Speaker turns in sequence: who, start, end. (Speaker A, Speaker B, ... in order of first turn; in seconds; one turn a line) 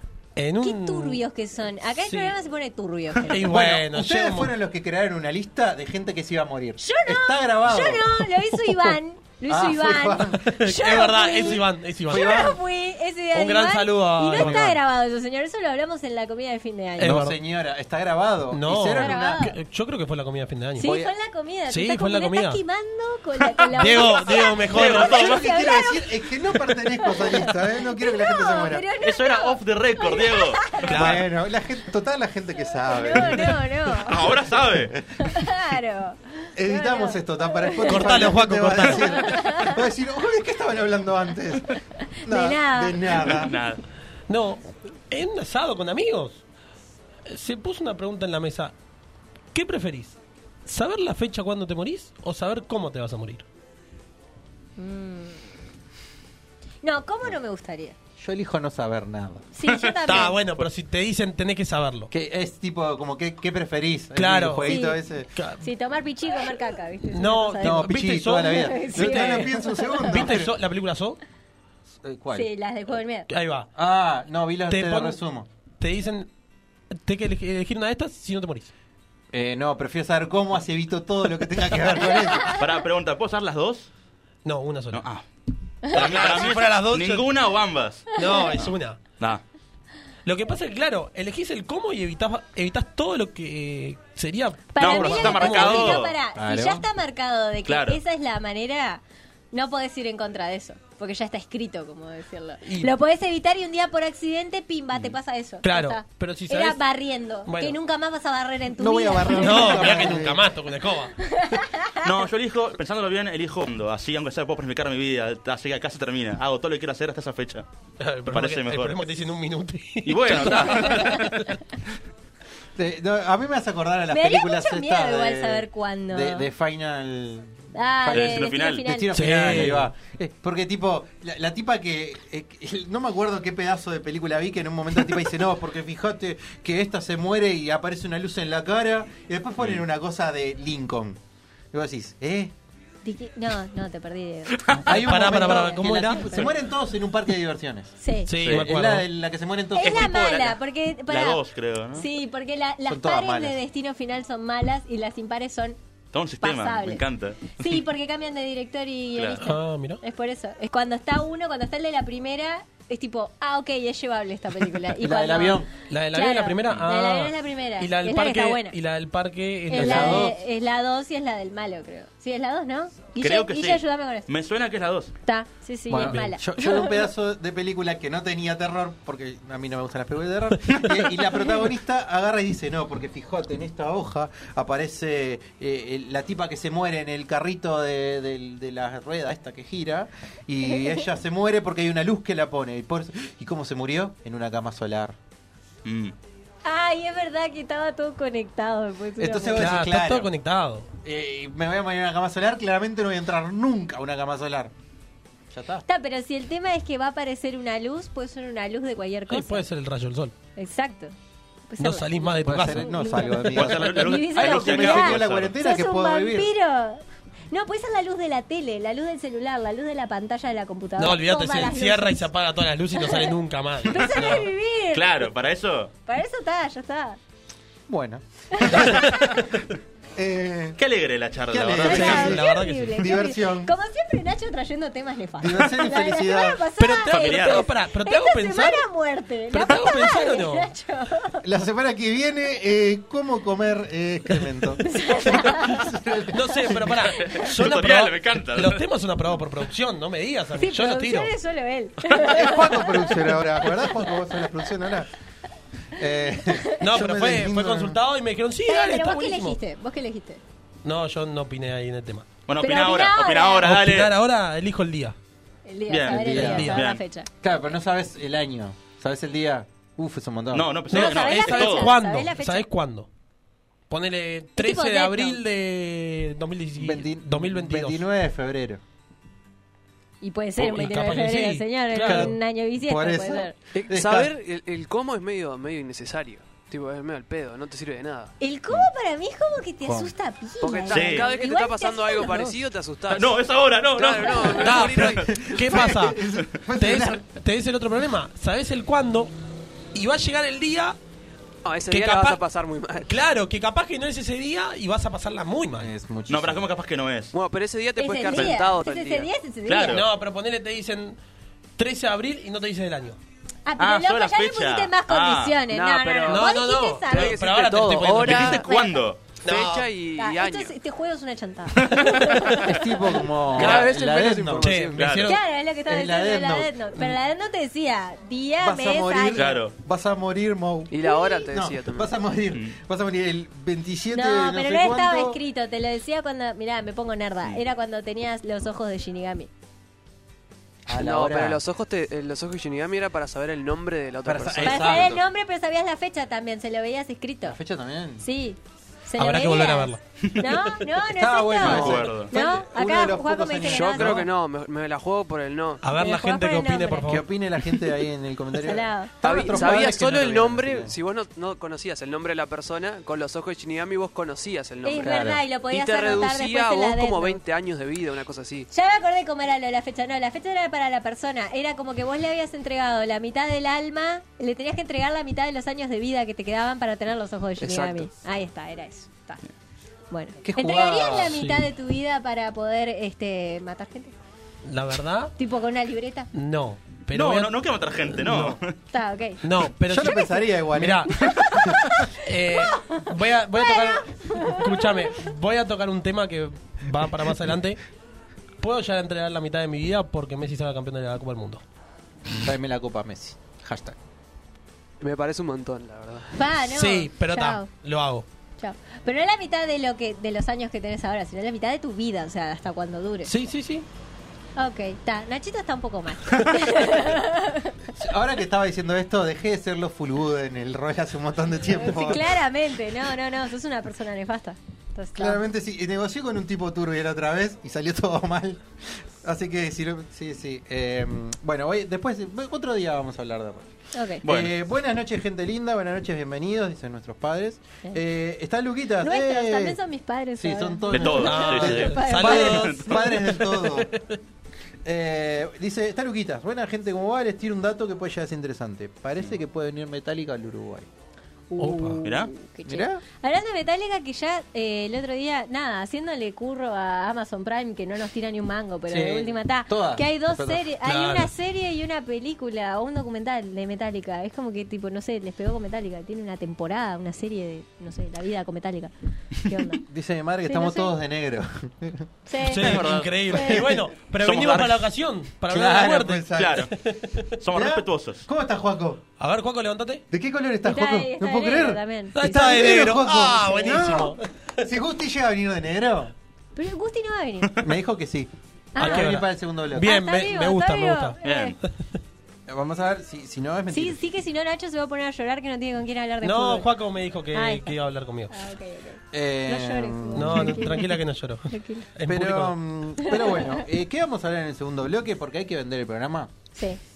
Speaker A: 0.3-1.2
Speaker B: 0.6-3.5
Speaker A: 2.0-2.3
Speaker A: 3.3-4.5
Speaker C: 3.4-8.0
Speaker B: 6.8-17.2
Speaker C: 9.5-10.5
Speaker A: 10.4-12.6
Speaker C: 12.1-12.6
Speaker A: 13.3-14.8
Speaker C: 14.3-14.7
Speaker A: 17.0-17.4
Speaker C: 17.0-19.4
Speaker A: 18.5-20.9
Speaker B: 18.9-19.6
Speaker B: 20.8-26.1
Speaker C: 20.8-21.1
Speaker A: 21.7-22.6
Speaker A: 23.7-25.2
Speaker D: 24.7-25.4
Speaker C: 24.7-28.9
Speaker B: 27.0-31.1
Speaker D: 29.0-30.7
Speaker A: 30.9-31.2
Speaker C: 30.9-35.5
Speaker B: 32.9-34.2
Speaker D: 34.0-34.9
Speaker B: 35.2-38.2
Speaker C: 36.5-41.7
Speaker A: 37.9-39.2
Speaker B: 39.1-39.8
Speaker B: 42.2-43.4
Speaker C: 42.2-43.5
Speaker D: 43.2-43.8
Speaker A: 44.3-46.4
Speaker A: 47.2-48.7
Speaker A: 49.5-53.5
Speaker B: 54.8-55.5
Speaker B: 56.8-57.9
Speaker C: 58.2-59.5
Speaker B: 59.5-60.4
Speaker D: 59.7-60.1
Speaker A: 60.0-62.1
Speaker C: 62.1-65.3
Speaker A: 64.2-64.7
Speaker B: 64.7-65.0
Speaker A: 65.3-65.6
Speaker B: 65.6-70.2
Speaker A: 67.1-69.5
Speaker C: 67.6-70.5
Speaker A: 70.0-71.2
Speaker C: 72.0-72.5
Speaker B: 72.3-73.3
Speaker A: 73.3-73.7
Speaker C: 73.8-75.5
Speaker A: 74.7-75.2
Speaker A: 75.8-76.3
Speaker A: 77.0-78.7
Speaker C: 79.3-82.6
Speaker D: 82.4-83.9
Speaker A: 84.4-85.0
Speaker D: 84.9-85.2
Speaker D: 85.8-88.1
Speaker A: 85.9-87.3
Speaker A: 88.1-89.0
Speaker A: 90.2-95.9
Speaker B: 94.7-110.1
Speaker D: 94.8-96.1
Speaker C: 96.3-96.8
Speaker D: 97.7-98.0
Speaker A: 102.6-102.9
Speaker A: 105.6-106.8
Speaker A: 107.5-107.8
Speaker C: 108.8-110.5
Speaker A: 109.3-111.1
Speaker B: 111.3-112.0
Speaker D: 112.0-117.7
Speaker A: 118.0-121.5
Speaker D: 118.3-119.0
Speaker D: 120.0-121.4
Speaker C: 122.8-141.2
Speaker B: 124.1-126.5
Speaker B: 127.7-129.2
Speaker D: 128.1-128.9
Speaker A: 129.1-129.9
Speaker C: 141.7-142.5
Speaker B: 143.0-144.7
Speaker C: 144.8-147.9
Speaker A: 144.9-146.4
Speaker B: 148.0-148.3
Speaker A: 148.3-149.1
Speaker D: 148.4-148.7
Speaker C: 148.4-150.1
Speaker B: 149.7-151.4
Speaker D: 149.8-152.1
Speaker B: 151.9-155.8
Speaker C: 152.9-153.6
Speaker D: 156.1-157.8
Speaker B: 156.4-157.0
Speaker B: 157.5-168.8
Speaker A: 159.4-160.0
Speaker C: 165.0-165.7
Speaker A: 165.9-170.3
Speaker B: 169.7-174.3
Speaker C: 169.7-170.3
Speaker D: 173.2-175.1
Speaker B: 175.2-177.1
Speaker C: 175.9-195.2
Speaker A: 176.0-176.3
Speaker D: 195.8-196.1
Speaker B: 196.6-199.7
Speaker C: 199.2-200.3
Speaker A: 199.5-200.9
Speaker C: 201.0-204.7
Speaker C: 205.5-205.8
Speaker B: 205.8-209.7
Speaker A: 209.3-210.3
Speaker B: 210.6-211.1
Speaker B: 211.7-222.3
Speaker A: 211.8-213.4
Speaker C: 212.4-216.5
Speaker D: 213.5-215.5
Speaker A: 221.0-224.5
Speaker B: 222.9-223.3
Speaker B: 223.9-225.2
Speaker D: 224.9-225.9
Speaker B: 226.1-227.2
Speaker C: 227.9-229.2
Speaker B: 228.5-229.0
Speaker A: 228.8-229.1
Speaker C: 230.2-230.8
Speaker D: 230.8-232.3
Speaker C: 231.5-232.4
Speaker A: 231.8-233.1
Speaker B: 231.8-241.4
Speaker C: 233.0-233.7
Speaker C: 235.4-236.6
Speaker A: 236.8-238.8
Speaker D: 237.1-237.7
Speaker A: 239.5-240.7
Speaker C: 241.4-247.0
Speaker B: 244.8-245.8
Speaker A: 246.3-251.3
Speaker D: 247.2-248.8
Speaker B: 250.6-253.2
Speaker C: 252.2-255.1
Speaker C: 255.9-258.0
Speaker A: 256.8-259.6
Speaker B: 258.6-260.4
Speaker A: 260.8-262.3
Speaker D: 262.5-264.1
Speaker B: 262.6-263.7
Speaker A: 263.6-265.1
Speaker B: 265.6-267.3
Speaker D: 265.9-267.0
Speaker C: 266.1-266.8
Speaker A: 266.2-266.8
Speaker C: 267.4-270.7
Speaker D: 270.5-271.9
Speaker A: 270.9-273.1
Speaker B: 270.9-272.7
Speaker A: 273.9-278.0
Speaker B: 274.6-275.4
Speaker C: 276.8-278.8
Speaker B: 280.2-283.5
Speaker A: 280.6-282.4
Speaker C: 282.0-284.3
Speaker E: 283.7-288.3
Speaker B: 288.4-292.6
Speaker C: 289.8-290.1
Speaker E: 290.6-293.4
Speaker D: 290.9-291.3
Speaker D: 293.1-295.2
Speaker E: 293.9-295.3
Speaker A: 294.5-296.2
Speaker C: 295.1-297.2
Speaker A: 296.8-299.3
Speaker A: 299.9-301.0
Speaker E: 301.6-303.2
Speaker A: 301.9-302.4
Speaker A: 303.1-305.9
Speaker C: 305.8-306.7
Speaker D: 306.3-307.3
Speaker E: 307.3-309.3
Speaker B: 308.0-310.0
Speaker D: 309.6-310.1
Speaker A: 309.8-311.2
Speaker A: 311.8-313.2
Speaker B: 313.6-317.4
Speaker D: 313.8-315.6
Speaker E: 315.7-318.6
Speaker A: 316.3-318.6
Speaker D: 318.1-319.2
Speaker B: 318.4-319.0
Speaker A: 319.4-319.9
Speaker E: 319.4-320.7
Speaker B: 320.2-322.9
Speaker C: 322.6-325.0
Speaker E: 323.5-325.1
Speaker A: 323.6-323.9
Speaker A: 324.6-325.4
Speaker D: 324.9-325.3
Speaker B: 325.2-329.5
Speaker C: 325.9-326.9
Speaker C: 328.6-335.4
Speaker D: 329.3-329.7
Speaker E: 330.9-332.1
Speaker B: 331.0-331.4
Speaker D: 332.5-332.8
Speaker B: 334.1-339.5
Speaker C: 340.9-341.6
Speaker E: 340.9-345.1
Speaker C: 344.2-345.2
Speaker B: 344.6-347.6
Speaker C: 347.4-348.2
Speaker B: 348.2-354.2
Speaker A: 349.2-350.7
Speaker C: 351.1-354.3
Speaker D: 351.6-352.3
Speaker E: 353.6-355.8
Speaker A: 355.8-357.2
Speaker B: 355.9-357.1
Speaker C: 357.1-360.9
Speaker B: 358.6-359.5
Speaker E: 359.2-368.7
Speaker B: 364.8-367.4
Speaker C: 365.0-365.4
Speaker B: 368.7-379.4
Speaker E: 377.6-378.1
Speaker B: 380.1-384.1
Speaker C: 380.4-381.4
Speaker A: 381.3-381.6
Speaker A: 384.6-385.3
Speaker B: 385.4-386.3
Speaker A: 386.3-387.5
Speaker D: 387.1-388.7
Speaker A: 388.2-388.6
Speaker B: 388.9-389.4
Speaker A: 389.4-390.2
Speaker C: 389.9-391.7
Speaker A: 390.7-391.1
Speaker B: 391.2-393.0
Speaker A: 392.1-397.8
Speaker B: 393.5-394.8
Speaker A: 398.6-401.6
Speaker C: 402.3-404.0
Speaker E: 405.0-406.3
Speaker B: 406.4-407.7
Speaker A: 406.7-408.2
Speaker B: 408.6-413.3
Speaker A: 413.2-413.9
Speaker B: 414.6-417.8
Speaker C: 417.9-422.4
Speaker B: 421.7-425.4
Speaker C: 425.1-433.7
Speaker B: 433.9-434.2
Speaker C: 434.2-439.8
Speaker D: 434.2-434.5
Speaker B: 439.0-442.9
Speaker C: 440.4-443.9
Speaker D: 440.9-442.8
Speaker A: 441.2-444.1
Speaker C: 444.8-450.9
Speaker B: 451.5-469.8
Speaker A: 451.6-452.0
Speaker D: 452.0-452.3
Speaker C: 452.6-453.0
Speaker C: 458.9-460.7
Speaker A: 460.8-461.3
Speaker C: 469.9-472.1
Speaker B: 470.4-470.9
Speaker B: 472.3-473.6
Speaker A: 472.5-477.2
Speaker D: 472.6-473.2
Speaker C: 473.4-473.9
Speaker D: 474.2-474.9
Speaker C: 475.5-476.7
Speaker D: 476.3-476.7
Speaker D: 477.4-478.2
Speaker C: 477.5-479.0
Speaker A: 479.2-480.0
Speaker C: 480.1-486.1
Speaker B: 480.6-482.7
Speaker A: 482.1-484.2
Speaker B: 486.6-487.6
Speaker C: 487.6-489.9
Speaker B: 488.7-489.2
Speaker A: 488.8-491.2
Speaker B: 489.8-491.6
Speaker D: 491.2-491.6
Speaker C: 492.5-494.0
Speaker B: 493.7-496.7
Speaker A: 496.2-498.3
Speaker B: 497.3-497.8
Speaker B: 498.3-501.0
Speaker C: 499.1-500.6
Speaker A: 500.1-502.6
Speaker B: 501.5-501.9
Speaker C: 502.1-506.3
Speaker B: 503.0-503.6